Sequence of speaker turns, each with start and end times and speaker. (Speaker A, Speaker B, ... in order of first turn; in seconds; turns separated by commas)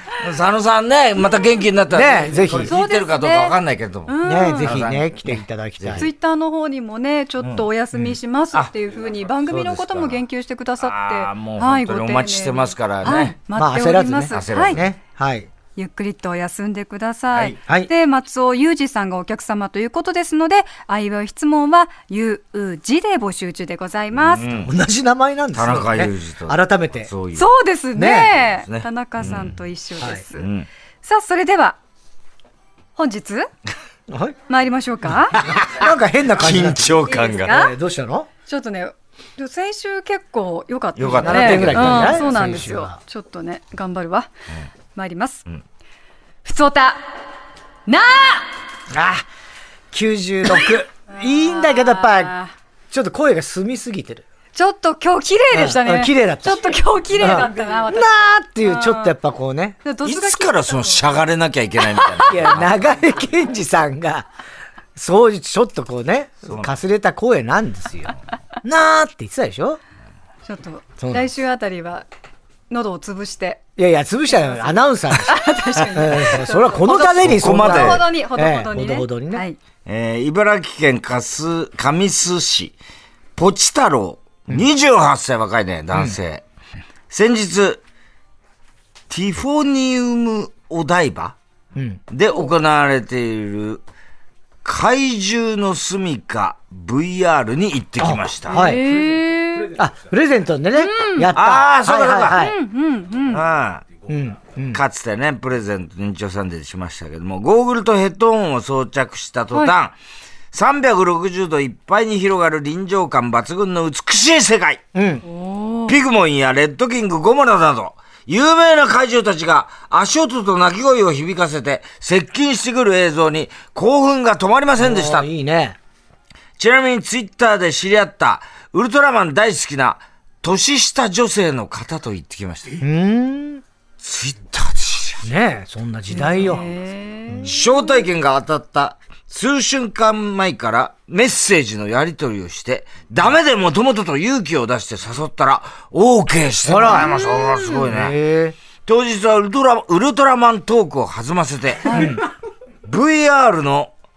Speaker A: 0.2-6.1, Speaker B: 1.9-2.7, Speaker C: 2.6-3.5, Speaker C: 4.1-4.8, Speaker B: 4.2-6.1, Speaker C: 6.0-14.8, Speaker A: 7.4-7.7, Speaker A: 9.3-10.2, Speaker A: 10.8-13.3, Speaker B: 13.5-15.5, Speaker A: 14.3-14.9, Speaker C: 15.8-24.4, Speaker A: 17.3-17.6, Speaker B: 17.6-17.9, Speaker A: 24.1-24.7, Speaker B: 24.5-27.1, Speaker A: 25.5-27.5, Speaker C: 27.3-30.5, Speaker B: 27.9-28.3, Speaker A: 28.4-29.5, Speaker A: 30.4-30.7, Speaker C: 31.0-31.8, Speaker C: 33.0-33.5, Speaker B: 34.1-34.4, Speaker C: 34.5-35.5, Speaker A: 35.4-35.8, Speaker B: 35.5-38.3, Speaker A: 36.4-37.6, Speaker C: 37.1-37.7, Speaker C: 38.5-44.3, Speaker A: 41.0-42.6, Speaker B: 41.2-43.0, Speaker C: 44.9-45.4, Speaker C: 46.4-47.0, Speaker C: 47.9-48.5, Speaker B: 48.9-49.2, Speaker B: 49.9-52.3, Speaker C: 51.1-52.5, Speaker B: 52.9-54.2, Speaker C: 54.5-59.1, Speaker B: 55.5-59.8, Speaker C: 59.8-61.1, Speaker A: 60.0-62.8, Speaker C: 61.9-62.2, Speaker B: 62.3-64.3, Speaker B: 65.0-69.8, Speaker A: 66.5-66.7, Speaker C: 70.5-72.0, Speaker B: 71.0-71.3, Speaker C: 72.7-73.6, Speaker B: 73.8-79.4, Speaker C: 75.2-79.6, Speaker A: 76.9-78.0, Speaker A: 79.8-82.7, Speaker A: 83.3-86.4, Speaker A: 87.1-87.8, Speaker A: 89.1-91.3, Speaker B: 91.7-92.0, Speaker A: 92.1-93.8, Speaker A: 94.6-98.6, Speaker B: 98.0-98.8, Speaker C: 98.5-99.7, Speaker B: 99.7-102.5, Speaker C: 100.7-101.3, Speaker A: 101.3-102.5, Speaker C: 102.3-103.4, Speaker A: 103.3-103.9, Speaker B: 104.1-104.8, Speaker A: 104.7-110.0, Speaker A: 110.5-114.8, Speaker B: 114.9-115.2, Speaker C: 115.2-116.0, Speaker A: 115.9-125.3, Speaker B: 124.8-125.8, Speaker A: 126.6-132.8, Speaker B: 132.8-133.6, Speaker A: 134.0-135.2, Speaker B: 135.2-136.7, Speaker C: 136.1-137.9, Speaker A: 137.4-148.2, Speaker B: 146.6-147.1, Speaker C: 146.8-147.8, Speaker B: 147.8-148.6, Speaker A: 148.8-152.1, Speaker C: 151.8-152.1, Speaker B: 151.9-152.3, Speaker A: 152.8-153.9